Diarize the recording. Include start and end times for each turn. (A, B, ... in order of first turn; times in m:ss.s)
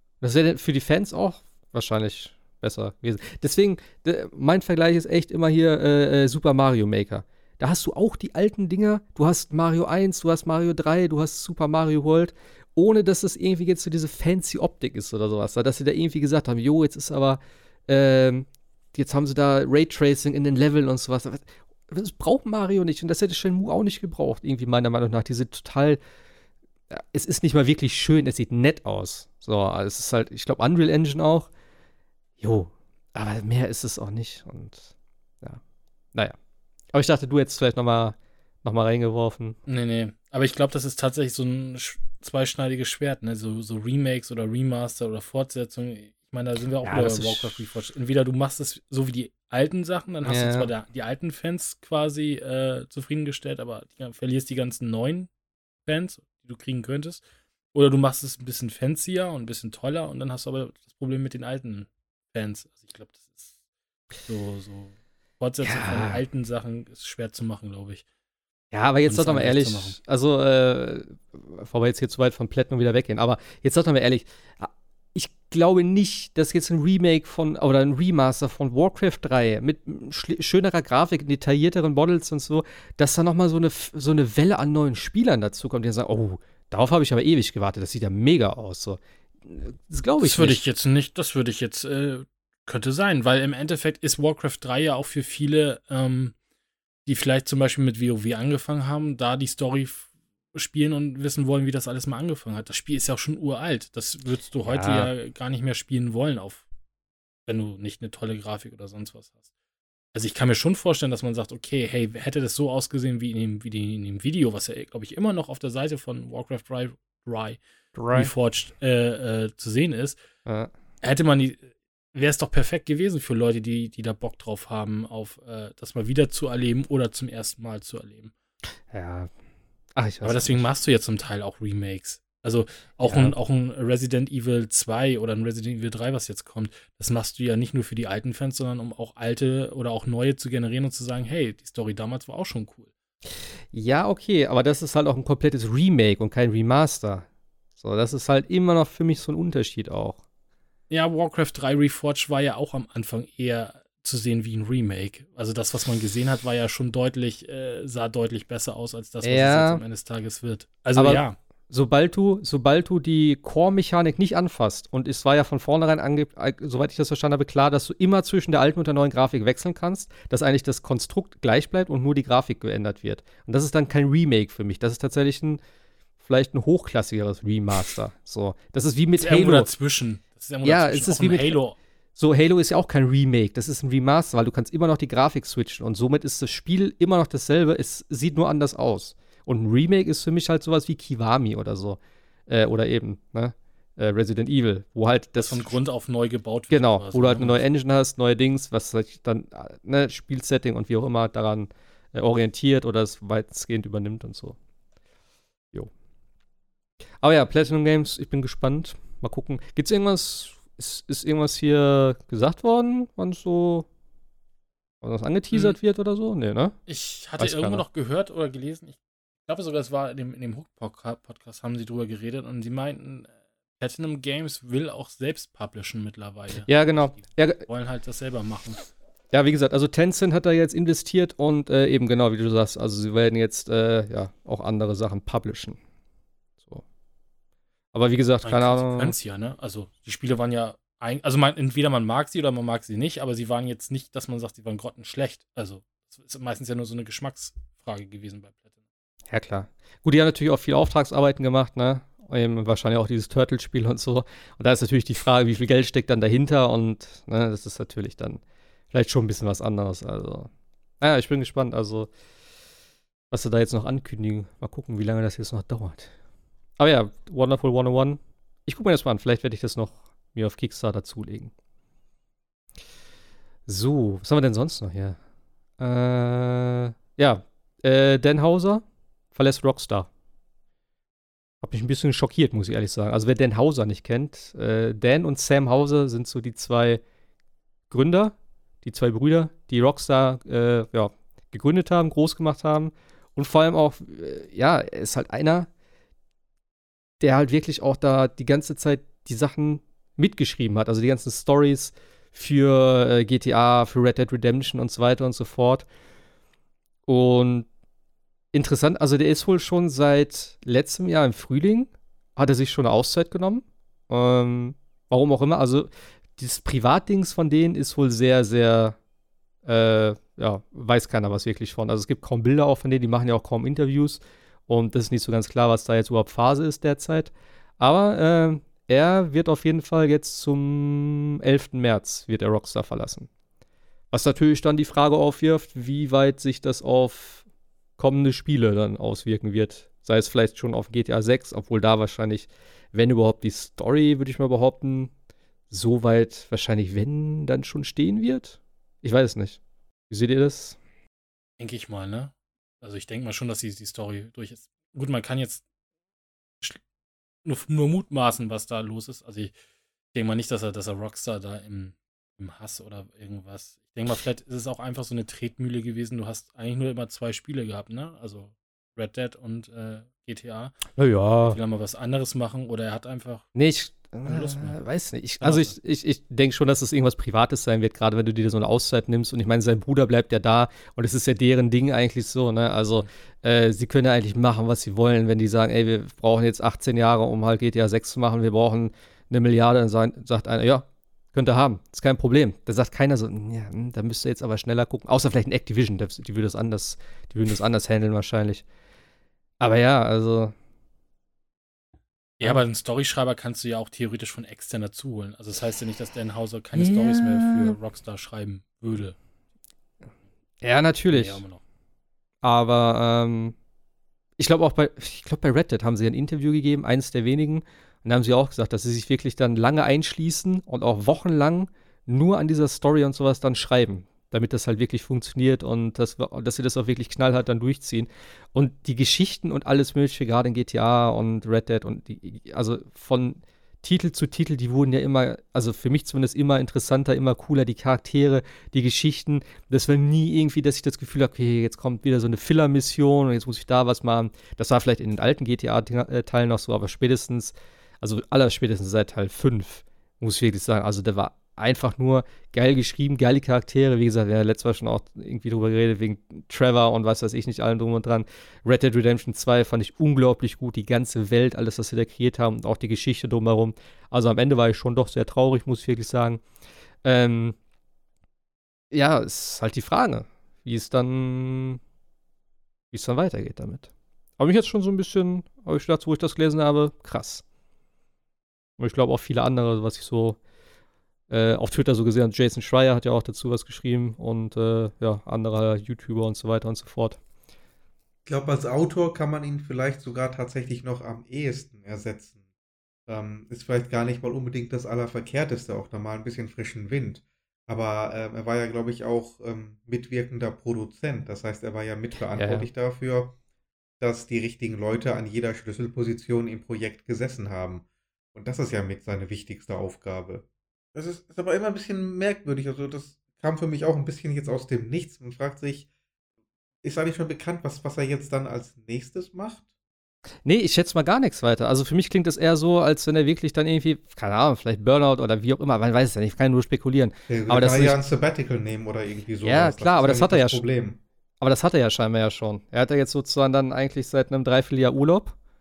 0:00.2-0:26.0 A
0:26.9-0:31.5 A
0:32.4-0:35.6 A
0:36.9-0:39.6 A
0:39.7-0:55.3 B
0:46.8-0:47.6 A
0:50.2-0:50.7 A
0:55.9-1:03.5 B
1:04.3-1:08.0 B
1:05.6-1:06.2 A
1:08.7-1:30.6 A
1:09.1-1:10.0 B
1:30.2-1:36.4 B
1:37.1-1:46.7 B
1:44.6-1:45.1 A
1:47.5-1:49.4 B
1:50.1-1:57.6 B
1:58.0-1:58.3 A
1:58.1-2:00.2 B
2:00.5-2:00.7 A
2:01.0-2:08.3 B
2:08.9-2:09.3 A
2:10.0-2:10.6 A
2:10.2-2:22.9 B
2:13.1-2:13.4 A
2:23.7-2:27.3 A
2:27.8-2:30.2 A
2:30.9-2:41.4 B
2:39.2-2:39.8 A
2:41.0-2:55.6 A
2:56.2-2:59.7 A
2:59.2-3:01.8 B
3:00.6-3:01.6 A
3:02.2-3:15.7 A
3:15.4-3:17.6 B
3:16.7-3:24.6 A
3:27.2-3:33.9 A
3:35.0-3:36.8 A
3:35.5-3:35.8 B
3:36.9-3:48.9 B
3:37.4-3:37.8 A
3:46.7-3:47.6 A
3:49.3-3:55.8 A
3:57.9-3:59.2 A
3:58.4-4:08.7 B
4:09.3-4:18.4 A
4:18.9-4:22.1 A
4:23.3-4:26.1 A
4:26.8-4:31.5 A
4:33.7-4:35.2 A
4:35.8-4:38.8 A
4:39.3-4:40.1 A
4:41.6-4:47.0 A
4:47.9-4:55.7 A
4:57.2-5:05.9 A
5:07.1-5:07.7 A
5:08.5-5:19.0 A
5:19.6-5:33.3 A
5:34.1-5:37.4 A
5:38.0-5:45.1 A
5:45.7-5:50.8 A
5:51.6-5:55.6 B
5:57.4-5:59.5 B
6:00.1-6:10.8 B
6:11.0-6:11.6 A
6:11.4-6:13.5 B
6:13.6-6:38.6 A
6:14.2-6:14.8 B
6:15.4-6:15.8 B
6:39.6-6:40.6 A
6:42.4-6:49.2 B
6:46.8-6:47.8 A
6:50.6-6:51.4 A
6:51.1-6:51.6 B
6:52.4-6:53.6 A
6:54.4-7:46.4 A
7:47.0-7:47.6 A
7:48.9-7:51.8 A
7:52.9-7:57.4 A
7:58.8-8:00.4 A
8:01.3-8:07.2 A
8:08.3-8:12.4 C
8:13.1-8:23.4 C
8:22.3-8:22.7 A
8:24.0-8:35.9 C
8:36.8-8:39.7 C
8:40.4-8:48.0 A
8:47.3-8:51.0 C
8:49.4-8:50.6 A
8:51.4-8:55.4 A